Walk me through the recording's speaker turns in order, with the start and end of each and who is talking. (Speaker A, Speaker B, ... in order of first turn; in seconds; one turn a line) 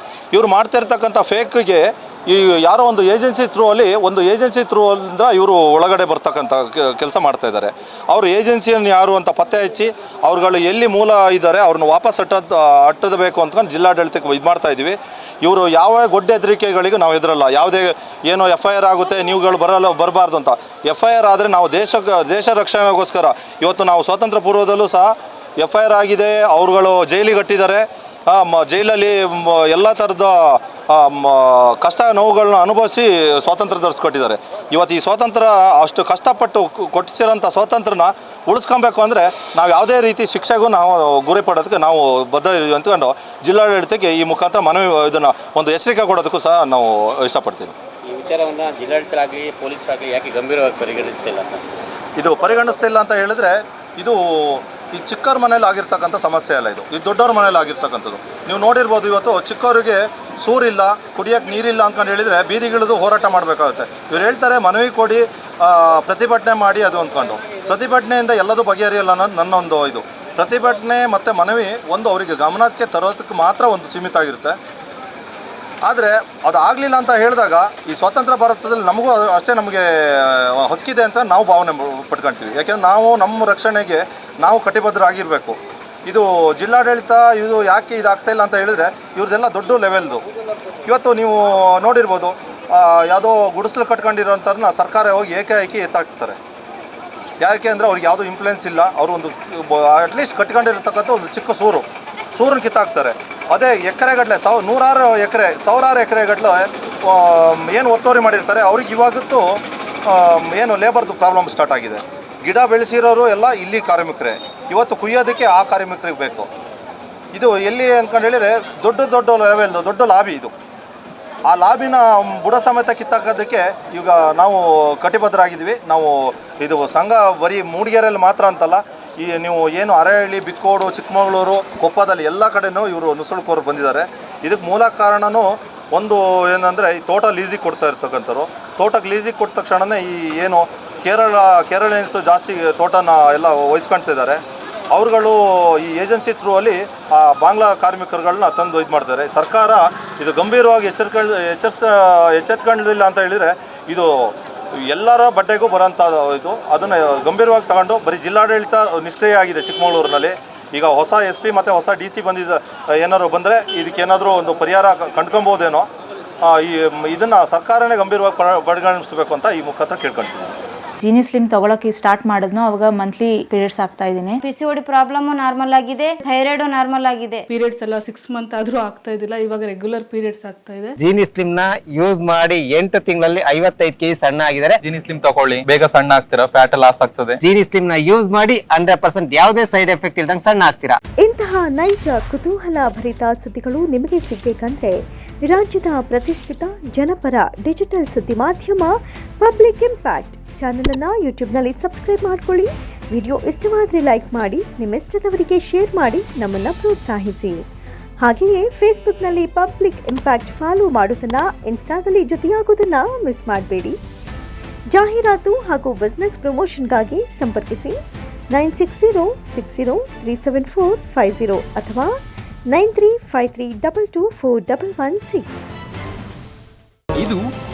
Speaker A: 0.3-47.8
Speaker B: 48.1-51.6
Speaker A: 52.2-74.6
Speaker A: 75.8-90.2
Speaker A: 90.9-96.4
Speaker A: 97.4-116.5
Speaker A: 117.3-120.5
Speaker A: 121.5-144.4
Speaker A: 144.9-165.9
Speaker A: 166.4-170.6
Speaker C: 171.0-174.4
Speaker D: 174.4-177.4
Speaker E: 177.5-180.9
Speaker F: 181.0-184.8
Speaker G: 184.8-187.4
Speaker F: 187.4-191.0
Speaker H: 191.2-207.6
Speaker H: 208.2-214.0
Speaker H: 214.9-218.0
Speaker H: 218.5-222.1
Speaker H: 222.7-225.7